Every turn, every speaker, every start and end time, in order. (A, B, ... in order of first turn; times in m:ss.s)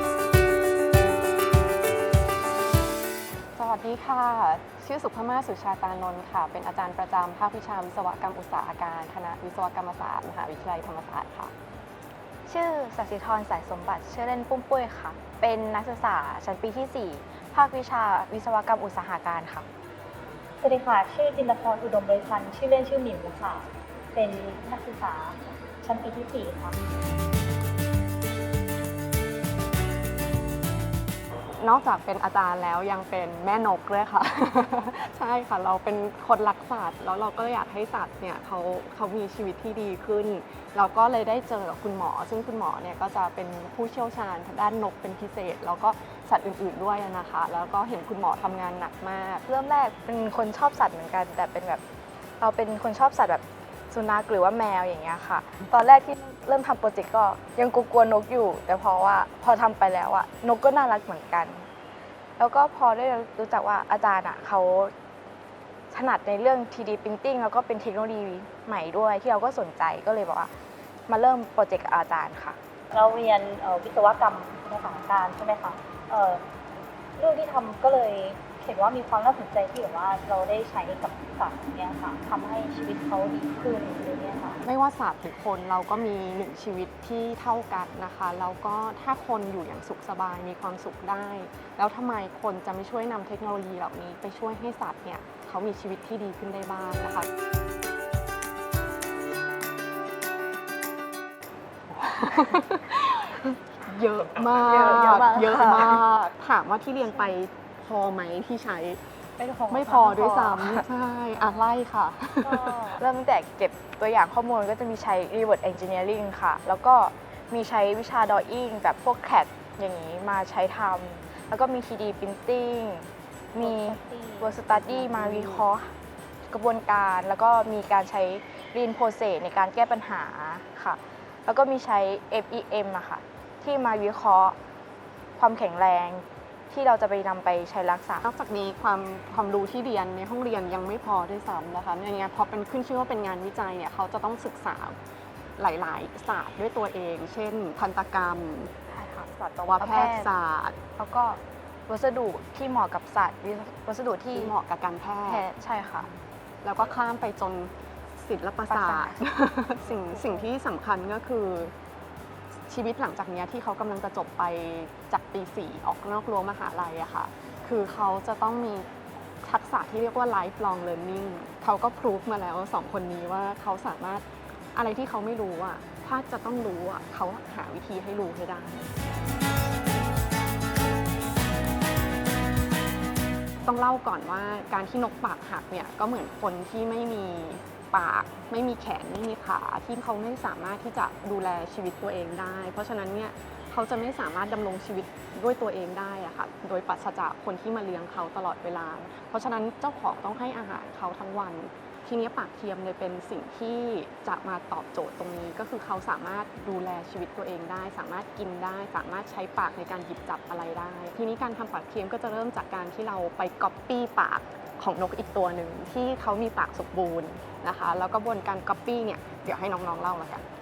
0:03.6-0:11.5 A
0:12.5-0:19.7 B
0:20.6-0:26.8 C
0:31.6-0:49.5 A
0:49.5-0:51.8 B
0:52.4-1:01.7 B
1:02.4-1:04.9 B
1:05.9-1:10.5 B
1:11.1-1:12.6 B
1:12.9-1:16.4 C
1:17.2-1:24.6 C
1:24.6-1:37.3 A
1:41.9-1:49.0 A
1:44.4-1:46.1 B
1:49.4-1:50.8 B
1:49.7-1:53.0 A
1:52.4-2:06.0 B
2:03.6-2:04.6 C
2:04.7-2:05.6 A
2:06.5-2:14.6 B
2:15.4-2:18.2 B
2:18.2-2:25.0 A
2:25.6-2:28.7 A
2:28.9-2:30.3 B
2:29.7-2:30.8 A
2:31.0-2:34.5 B
2:34.3-2:35.5 A
2:35.3-2:36.1 B
2:36.6-2:41.7 A
2:38.7-2:39.2 B
2:39.9-2:40.5 B
2:42.7-2:58.9 A
3:03.6-3:40.4 A